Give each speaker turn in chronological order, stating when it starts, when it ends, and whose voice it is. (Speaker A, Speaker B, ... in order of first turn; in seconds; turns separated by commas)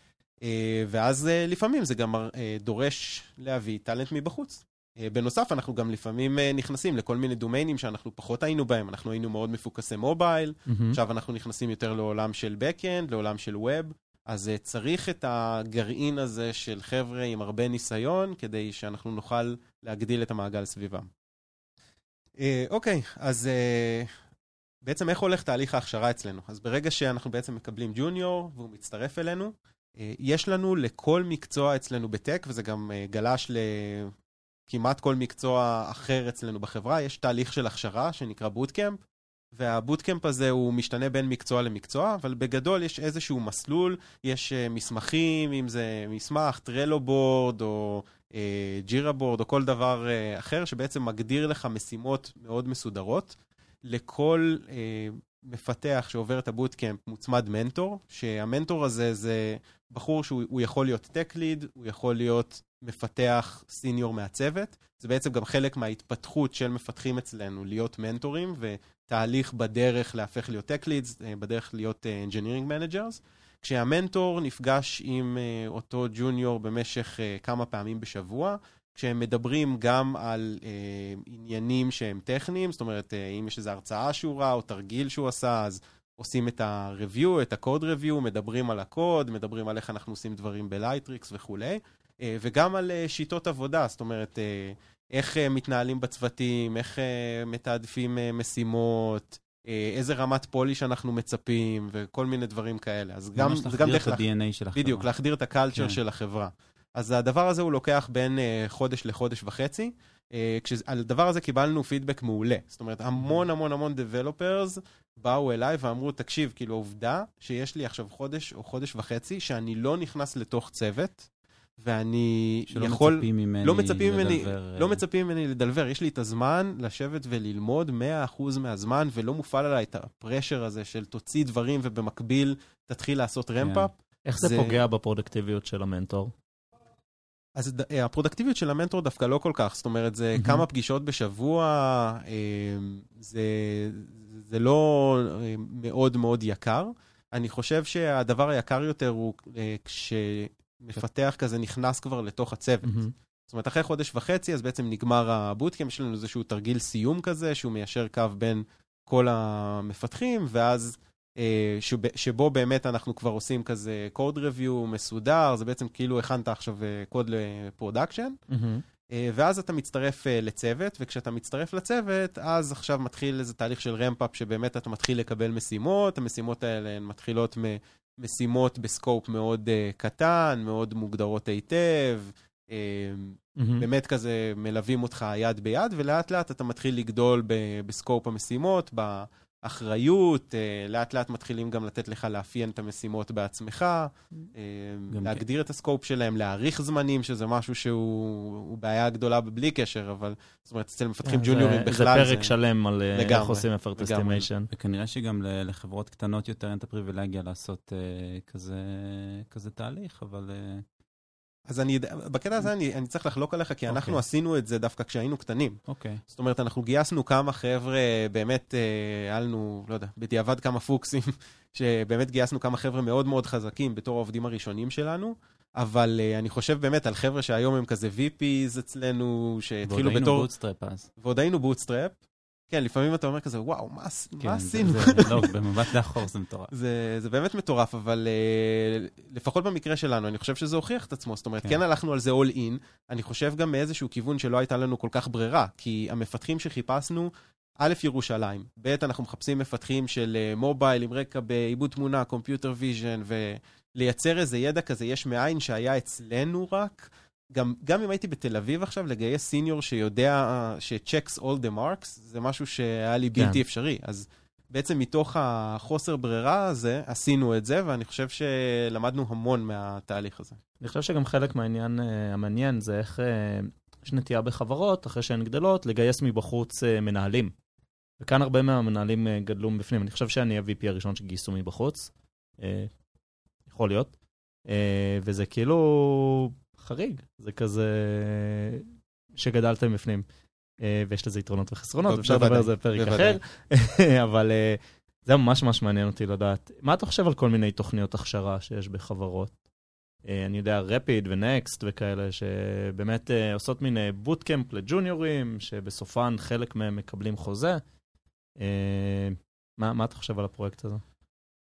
Speaker A: 0.4-21.1, Speaker B: 10.7-11.0, Speaker A: 22.4-24.1, Speaker A: 24.8-34.1, Speaker A: 34.7-39.0, Speaker A: 39.5-104.2, Speaker C: 103.4-105.1, Speaker A: 104.7-121.3, Speaker C: 105.7-106.0, Speaker A: 121.8-134.8, Speaker C: 122.7-125.0, Speaker C: 133.6-133.9, Speaker B: 134.3-136.3, Speaker A: 137.6-168.4, Speaker B: 140.4-140.7, Speaker B: 152.8-153.1, Speaker B: 168.5-168.8, Speaker A: 169.1-202.6, Speaker B: 183.6-183.9, Speaker C: 195.1-195.4, Speaker B: 201.2-204.7, Speaker A: 203.1-204.5, Speaker C: 204.7-210.8, Speaker A: 211.7-230.5, Speaker C: 213.9-214.2, Speaker C: 215.9-216.2, Speaker C: 229.9-231.1, Speaker A: 231.2-232.2, Speaker A: 232.7-236.0, Speaker C: 234.4-236.7, Speaker A: 236.7-270.6, Speaker B: 270.8-277.5, Speaker B: 278.2-282.9, Speaker B: 283.7-284.1, Speaker B: 284.7-290.2, Speaker B: 290.8-299.6, Speaker A: 292.0-293.4, Speaker B: 300.2-307.8, Speaker B: 308.6-311.0